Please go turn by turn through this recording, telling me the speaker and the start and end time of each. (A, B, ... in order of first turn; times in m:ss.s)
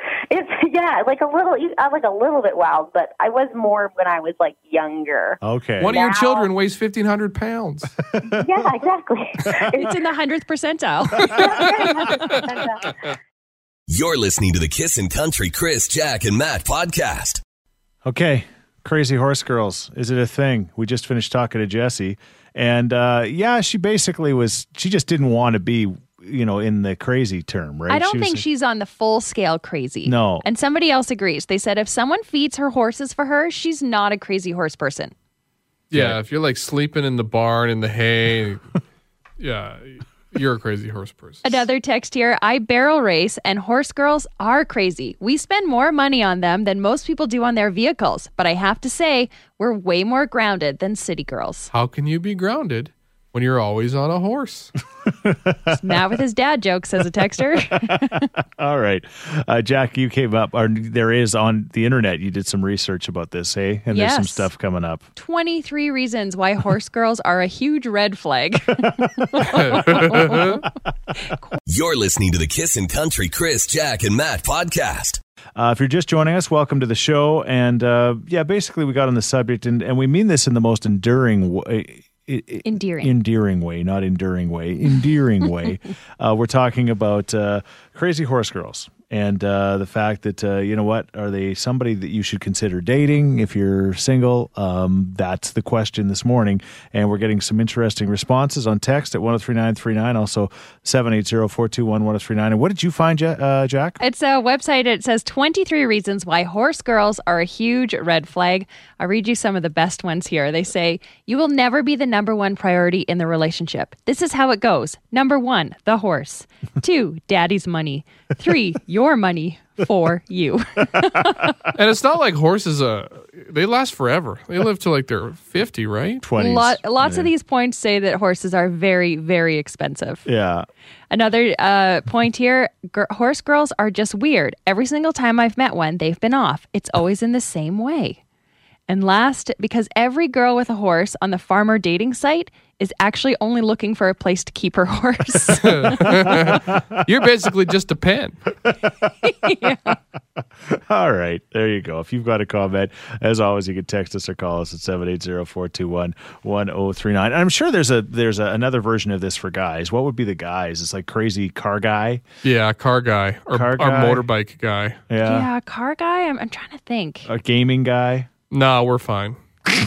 0:00.3-0:06.5 A
0:05.4-0:05.9 B
0:05.8-0:07.9 C
0:08.1-0:08.5 B
0:08.2-0:10.0 A
0:09.8-0:11.7 D
0:11.2-0:13.0 A
0:13.9-0:17.4 E
0:18.0-0:28.4 B
0:27.9-0:35.1 D
0:30.0-0:30.5 B
0:35.9-0:38.6 C
0:35.9-0:36.2 B
0:39.4-0:41.6 C
0:41.4-0:51.7 D
0:51.7-0:54.7 C
0:55.2-0:55.8 B
0:55.7-0:58.3 D
0:58.6-1:05.0 B
1:03.9-1:04.5 D
1:05.2-1:10.6 D
1:08.8-1:10.5 B
1:09.4-1:10.6 C
1:11.7-1:15.2 E
1:15.6-1:44.0 B
1:22.6-1:23.2 D
1:44.0-2:01.6 D
2:01.0-2:01.5 B
2:01.7-2:06.2 C
2:06.2-2:07.3 B
2:06.4-2:10.2 D
2:10.2-2:10.7 B
2:11.1-2:18.2 D
2:18.9-2:26.5 D
2:25.5-2:28.4 C
2:26.0-2:26.8 B
2:28.6-2:29.8 B
2:29.2-2:30.0 D
2:30.6-2:42.2 B
2:42.4-2:45.0 C
2:43.5-2:44.3 B
2:45.1-2:45.5 B
2:45.2-2:47.3 D
2:47.2-2:48.3 B
2:48.5-2:49.4 C